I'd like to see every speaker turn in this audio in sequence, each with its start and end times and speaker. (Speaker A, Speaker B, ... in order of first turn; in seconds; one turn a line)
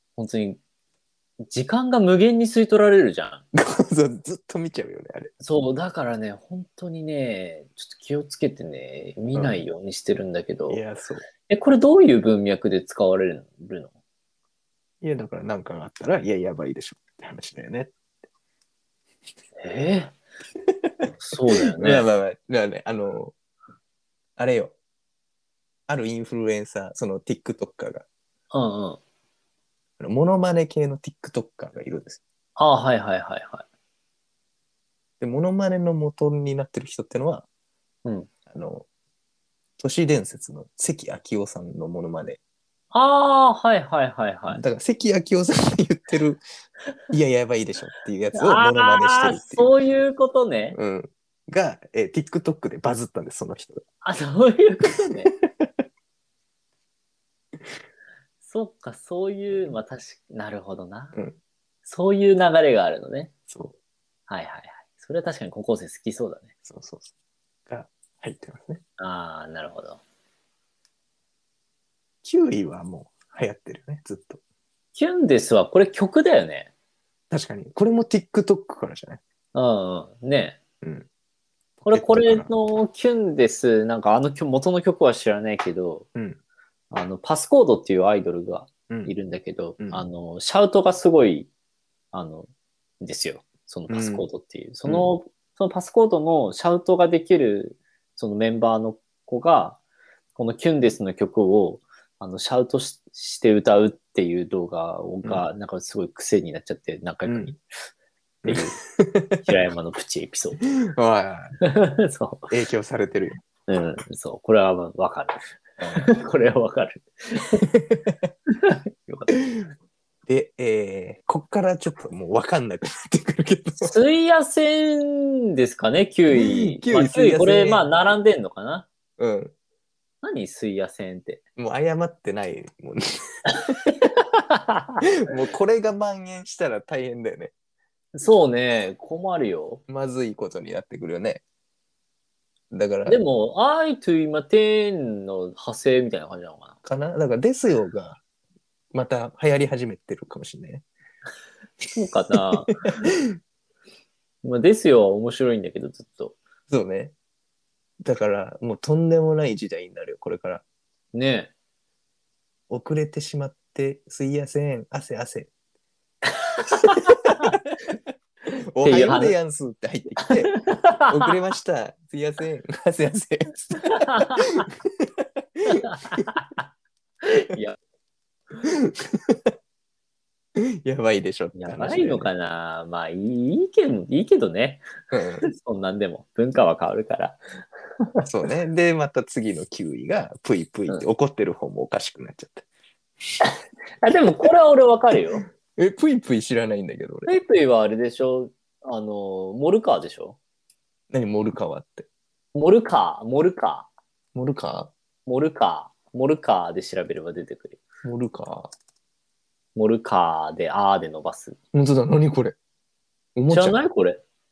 Speaker A: 0.2-0.6
Speaker A: 1.4-3.4
Speaker B: 3.5-5.3
Speaker A: 5.4-10.8
Speaker B: 9.3-9.6
Speaker B: 10.7-11.2
Speaker A: 11.5-13.9
Speaker B: 15.0-17.9
Speaker A: 19.6-20.1
Speaker B: 21.0-23.3
Speaker A: 21.2-22.1
Speaker B: 24.4-24.7
Speaker B: 25.9-28.1
Speaker A: 28.5-29.0
Speaker B: 30.0-32.2
Speaker A: 32.6-33.6
Speaker B: 35.2-37.5
Speaker B: 38.5-38.9
Speaker B: 39.8-42.4
Speaker A: 42.9-44.6
Speaker B: 44.5-46.4
Speaker B: 47.1-49.7
Speaker A: 48.3-50.8
Speaker B: 50.7-53.8
Speaker A: 54.0-55.3
Speaker B: 55.3-55.7
Speaker A: 58.4-61.2
Speaker B: 59.5-59.8
Speaker A: 61.8-63.3
Speaker B: 63.5-63.7
Speaker A: 64.3-66.5
Speaker B: 66.6-67.1
Speaker B: 67.7-68.8
Speaker A: 69.0-70.0
Speaker B: 72.2-74.4
Speaker A: 74.9-76.7
Speaker B: 77.3-79.2
Speaker A: 79.5-80.6
Speaker B: 80.8-81.1
Speaker B: 81.8-82.5
Speaker A: 81.8-86.1
Speaker A: 86.9-91.5
Speaker B: 89.8-90.1
Speaker A: 92.1-92.5
Speaker A: 93.0-99.8
Speaker B: 93.9-94.2
Speaker A: 100.3-107.5
Speaker B: 107.2-107.5
Speaker B: 108.4-109.4
Speaker A: 108.5-108.8
Speaker A: 109.4-110.6
Speaker B: 110.8-111.5
Speaker A: 111.6-112.5
Speaker B: 112.5-113.4
Speaker A: 113.7-117.6
Speaker B: 117.6-118.2
Speaker A: 118.5-119.4
Speaker B: 119.4-119.6
Speaker B: 120.2-123.9
Speaker A: 123.8-128.9
Speaker B: 126.3-127.9
Speaker B: 129.2-129.5
Speaker A: 130.2-131.4
Speaker B: 131.6-133.8
Speaker A: 134.0-135.0
Speaker B: 135.2-137.5
Speaker A: 138.1-139.8
Speaker B: 139.9-141.4
Speaker B: 142.7-143.2
Speaker A: 143.1-146.8
Speaker B: 146.8-148.2
Speaker B: 148.9-150.8
Speaker A: 151.9-153.1
Speaker A: 154.4-156.4
Speaker B: 156.7-157.1
Speaker B: 158.0-160.6
Speaker A: 161.1-161.5
Speaker B: 162.7-165.5
Speaker A: 166.5-167.6
Speaker B: 166.8-167.6
Speaker B: 168.7-176.2
Speaker A: 168.8-169.3
Speaker A: 170.3-171.3
Speaker A: 173.8-174.6
Speaker A: 175.7-176.6
Speaker A: 177.2-177.8
Speaker B: 178.6-179.5
Speaker B: 180.5-182.3
Speaker A: 181.5-184.9
Speaker B: 185.1-185.4
Speaker A: 185.4-187.4
Speaker B: 188.2-192.7
Speaker A: 193.4-195.4
Speaker B: 195.5-197.3
Speaker A: 197.2-200.4
Speaker B: 201.1-202.1
Speaker A: 202.5-203.9
Speaker B: 204.3-204.9
Speaker A: 205.2-207.8
Speaker B: 208.0-208.7
Speaker A: 209.7-211.6
Speaker B: 211.7-212.6
Speaker B: 213.3-213.8
Speaker A: 213.5-214.2